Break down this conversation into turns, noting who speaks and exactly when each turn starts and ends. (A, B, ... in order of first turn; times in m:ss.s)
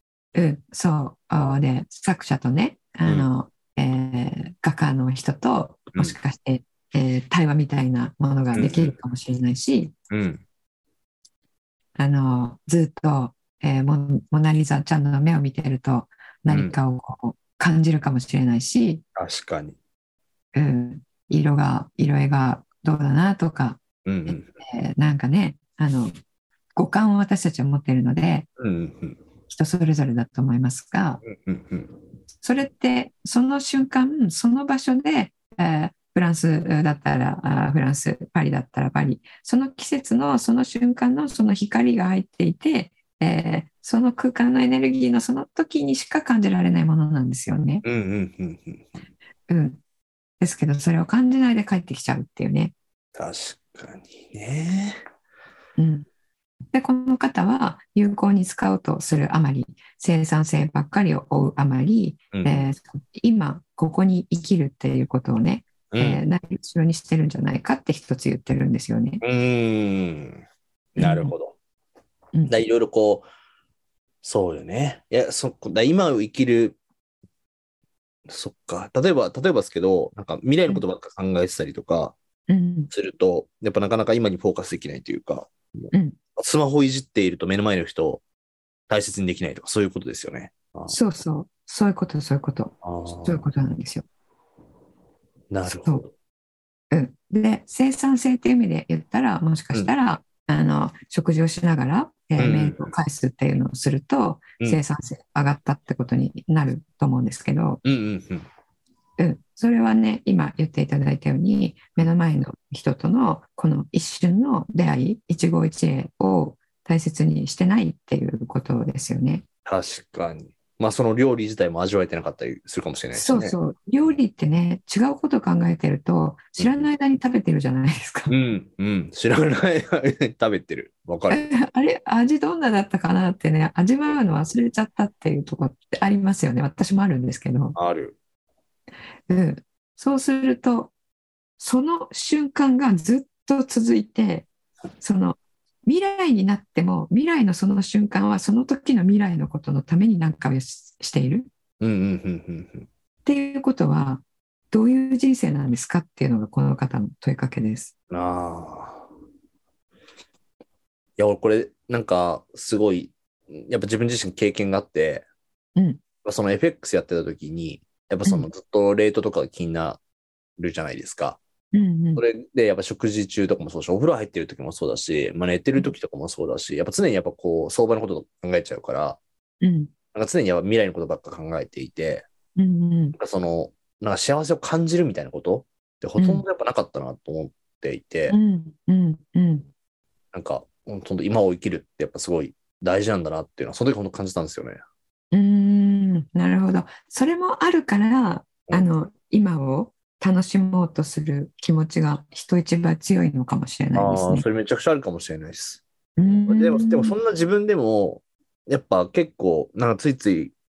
0:00.3-0:09.9 A
0:08.5-0:09.0 B
0:10.1-0:10.4 B
0:12.0-0:19.0 A
0:16.5-0:16.7 B
0:19.2-0:19.8 B
0:20.5-0:26.1 A
0:24.0-0:24.5 B
0:26.8-0:28.5 A
0:28.6-0:29.2 B
0:29.5-0:31.2 A
0:31.2-0:31.9 B
0:32.4-0:47.8 A
0:47.8-0:48.9 B
0:49.5-0:49.8 A
0:50.4-0:52.7 A
0:53.1-0:55.0 B
0:55.8-0:56.0 A
0:56.7-1:09.2 A
1:02.3-1:02.7 B
1:05.9-1:06.2 B
1:09.2-1:10.4 B
1:11.0-1:11.6 B
1:11.0-1:11.3 A
1:12.5-1:13.2 B
1:14.2-1:16.8 B
1:18.3-1:22.2 B
1:22.5-1:22.9 A
1:22.9-1:28.2 B
1:25.9-1:26.2 A
1:28.9-1:31.0 B
1:30.9-1:34.0 A
1:32.8-1:33.5 B
1:35.5-1:36.1 B
1:35.6-1:36.0 A
1:36.9-1:47.8 A
1:42.4-1:42.9 B
1:47.8-1:48.4 B
1:49.2-1:59.4 A
1:59.6-2:03.6 B
2:03.1-2:08.3 A
2:06.6-2:06.9 B
2:08.3-2:11.5 B
2:11.3-2:17.8 A
2:17.7-2:18.2 B
2:19.3-2:20.9 A
2:21.6-2:24.5 A
2:25.0-2:31.5 A
2:31.8-2:32.9 B
2:33.2-2:37.9 A
2:38.1-2:39.0 B
2:41.2-2:45.2 B
2:45.8-2:46.0 A
2:46.2-2:50.0 B
2:50.6-2:51.4 B
2:51.7-2:52.2 A
2:52.2-2:59.2 B
2:59.6-2:59.9 A
3:00.1-3:02.2 B
3:02.6-3:03.2 A
3:03.2-3:08.4 B
3:06.2-3:06.4 A
3:08.3-3:09.7 A
3:10.3-3:14.8 B
3:15.3-3:24.4 A
3:23.9-3:30.5 B
3:26.2-3:27.2 A